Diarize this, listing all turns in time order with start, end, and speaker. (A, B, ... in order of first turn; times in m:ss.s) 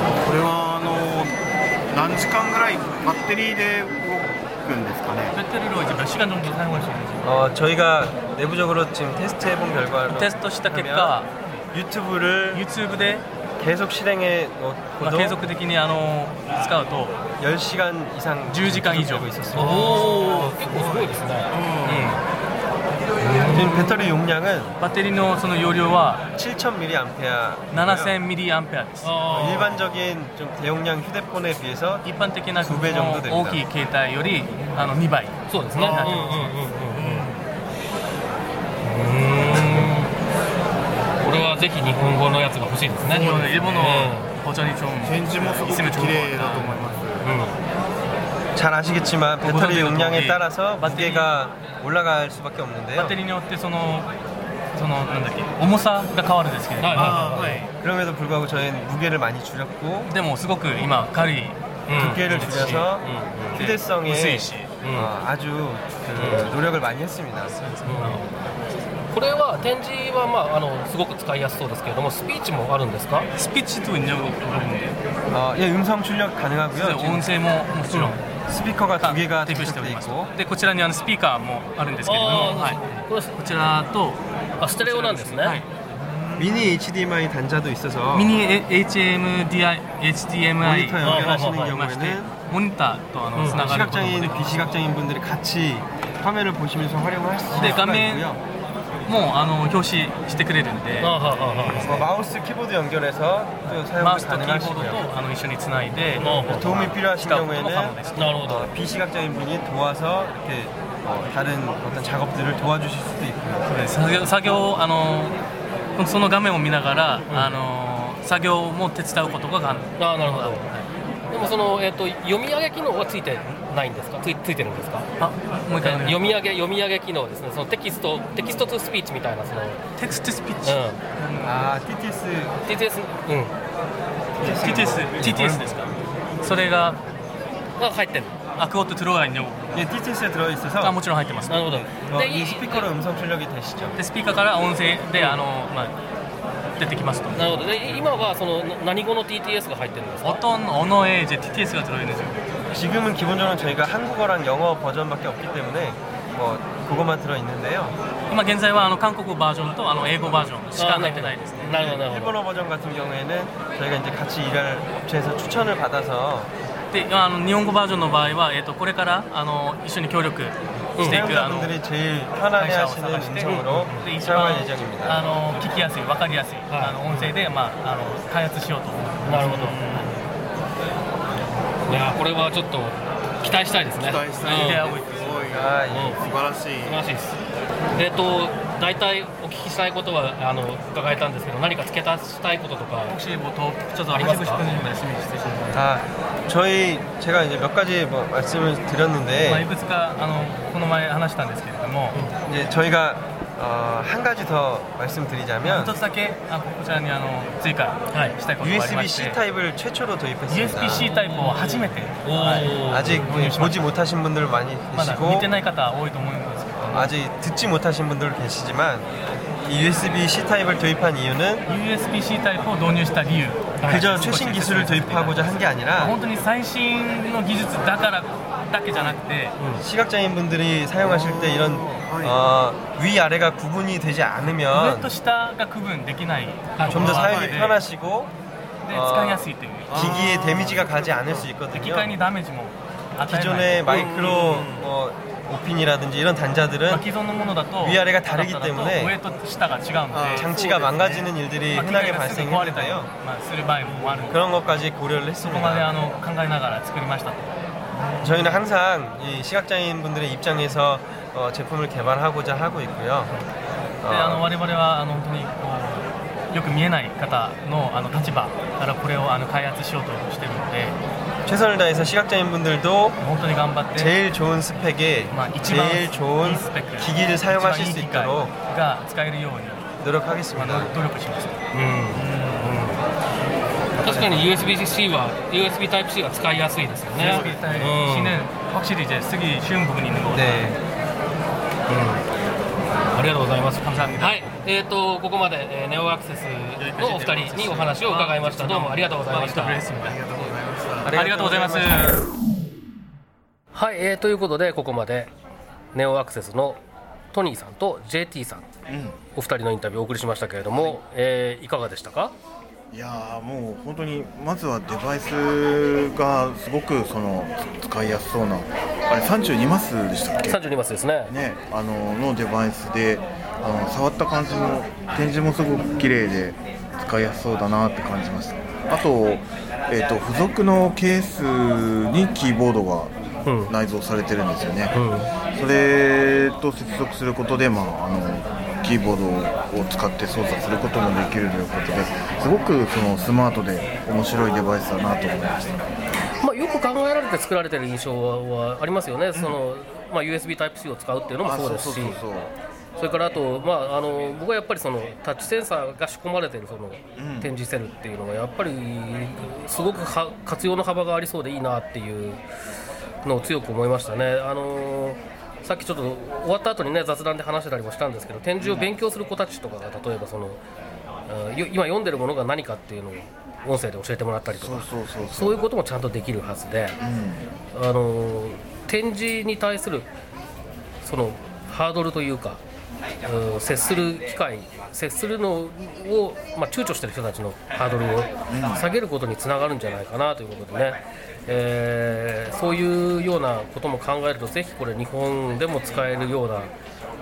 0:00.2-0:01.4 A
0:01.9-0:05.4 A
0:05.3-0:07.5 B
0:07.2-0:11.2 C
0:10.1-0:11.3 B
0:11.7-0:12.6 C
0:12.5-0:13.2 B
0:13.6-0:15.4 C
0:15.0-0:17.2 B
0:17.4-0:20.1 C
0:18.5-0:20.5 B
0:19.5-0:22.2 D
0:21.6-0:22.2 B
0:23.2-0:24.0 D
0:23.4-0:24.8 C
0:24.8-0:26.2 B
0:26.3-0:28.2 C
0:27.7-0:29.2 B
0:29.0-0:29.7 D
0:29.2-0:32.0 C
0:32.0-0:36.5 B
0:32.6-0:33.6 C
0:34.6-0:34.9 A
0:35.5-0:37.3 D
0:35.7-0:37.4 A
0:38.8-0:40.1 D
0:39.4-0:39.8 A
0:41.2-0:44.3 D
0:43.0-0:47.0 B
0:45.0-0:47.3 A
0:47.2-0:47.6 D
0:48.5-0:53.2 C
0:49.4-0:51.4 B
0:53.0-0:54.1 B
0:54.7-0:57.6 B
0:56.8-0:57.6 D
0:56.9-0:57.6 A
0:57.8-1:00.1 C
1:00.1-1:02.9 B
1:01.9-1:03.6 D
1:01.9-1:07.6 C
1:03.6-1:04.7 B
1:04.8-1:05.1 D
1:06.2-1:06.5 D
1:07.4-1:08.2 B
1:07.8-1:08.4 D
1:09.1-1:13.3 D
1:13.3-1:14.9 B
1:15.3-1:17.3 C
1:16.7-1:18.2 B
1:17.9-1:20.3 C
1:19.0-1:24.2 B
1:22.0-1:23.3 D
1:24.6-1:25.6 D
1:24.8-1:26.8 B
1:26.4-1:28.3 C
1:28.1-1:34.6 B
1:30.6-1:32.3 C
1:31.0-1:31.7 D
1:33.4-1:33.7 D
1:33.4-1:38.4 C
1:37.6-1:38.3 B
1:39.1-1:42.0 B
1:41.0-1:41.9 D
1:41.7-1:45.0 C
1:43.6-1:46.3 B
1:46.2-1:47.0 D
1:46.3-1:53.7 C
1:46.8-1:48.4 B
1:48.2-1:48.7 D
1:53.7-1:55.4 B
1:56.0-2:00.9 B
1:57.3-1:57.6 D
2:00.0-2:00.7 D
2:01.3-2:05.1 D
2:05.2-2:06.2 B
2:05.8-2:09.8 D
2:10.0-2:11.8 B
2:10.6-2:11.0 D
2:11.4-2:12.6 C
2:12.6-2:13.5 D
2:14.4-2:15.9 C
2:14.4-2:15.9 B
2:16.4-2:17.0 B
2:17.8-2:18.3 D
2:18.6-2:19.6 B
2:19.7-2:21.0 C
2:20.8-2:21.8 B
2:21.5-2:22.9 D
2:21.8-2:24.0 C
2:24.0-2:26.0 B
2:26.8-2:27.5 B
2:27.3-2:30.4 D
2:30.2-2:32.4 B
2:32.7-2:38.0 C
2:38.3-2:42.0 B
2:40.8-2:42.3 D
2:41.6-2:46.5 C
2:46.9-2:51.8 B
2:51.0-2:51.3 D
2:51.0-2:55.2 C
2:52.5-2:59.4 B
2:53.4-2:54.1 D
2:56.7-2:57.3 D
2:59.2-3:00.1 D
2:59.3-3:00.2 A
3:01.8-3:04.9 D
3:04.0-3:07.0 A
3:04.4-3:05.5 B
3:05.5-3:06.2 C
3:05.9-3:06.2 D
3:06.8-3:07.3 D
3:07.9-3:13.2 D
3:13.0-3:15.8 B
3:14.1-3:14.8 D
3:15.7-3:19.7 C
3:19.4-3:22.2 B
3:22.4-3:25.9 C
3:25.6-3:29.4 B
3:28.1-3:28.4 D
3:28.6-3:31.1 C
3:30.5-3:33.8 B
3:30.9-3:33.2 D
3:32.8-3:35.5 C
3:34.9-3:37.1 B
3:36.8-3:39.1 C
3:39.6-3:41.6 C
3:41.6-3:49.6 B
3:43.8-3:44.1 D
3:43.8-3:46.1 C
3:49.6-3:49.8 D
3:49.8-3:55.1 C
3:51.0-3:52.4 A
3:54.7-3:57.8 B
3:56.8-3:57.0 D
3:56.8-3:58.3 C
3:56.9-3:57.6 A
3:58.8-4:00.1 B
3:58.9-4:02.1 C
3:59.9-4:01.5 A
4:01.7-4:04.2 B
4:03.2-4:07.0 C
4:03.9-4:04.9 A
4:06.9-4:10.5 B
4:07.8-4:09.2 C
4:10.1-4:11.3 A
4:10.3-4:13.1 C
4:11.7-4:14.7 B
4:13.8-4:14.3 A
4:14.2-4:15.9 C
4:15.4-4:17.5 B
4:17.9-4:18.6 A
4:18.2-4:23.4 C
4:24.0-4:24.5 C
4:24.1-4:31.0 B
4:31.4-4:33.2 C
4:33.2-4:34.2 B
4:33.9-4:38.5 C
4:35.3-4:39.8 B
4:40.0-4:41.0 C
4:40.5-4:41.6 B
4:41.7-4:43.0 D
4:42.1-4:42.8 A
4:43.9-4:44.5 A
4:44.0-4:48.4 D
4:47.2-4:48.0 A
4:47.2-4:50.8 B
4:50.3-4:50.8 C
4:51.9-4:52.2 D
4:53.1-4:59.8 D
4:53.8-4:54.5 B
4:56.8-5:02.2 B
5:00.0-5:01.2 A
5:01.0-5:02.1 C
5:03.7-5:05.3 D
5:05.9-5:06.8 D
5:07.3-5:08.6 D
5:08.9-5:09.2 A
5:09.3-5:12.3 D
5:10.7-5:11.0 A
5:12.9-5:20.6 A
5:20.4-5:21.3 D
5:21.3-5:33.1 A
5:33.4-5:33.7 D
5:33.7-5:34.9 A
5:34.9-5:35.3 D
5:35.5-5:45.7 A
5:46.4-5:52.2 D
5:49.3-5:49.6 A
5:51.4-5:52.5 A
5:53.0-6:02.4 D
5:57.2-5:57.5 A
6:03.2-6:10.6 D
6:08.6-6:09.0 A
6:11.3-6:17.0 D
6:14.6-6:15.6 A
6:17.0-6:17.5 A
6:17.7-6:20.1 D
6:21.0-6:22.6 D
6:23.2-6:36.7 D
6:28.5-6:28.8 A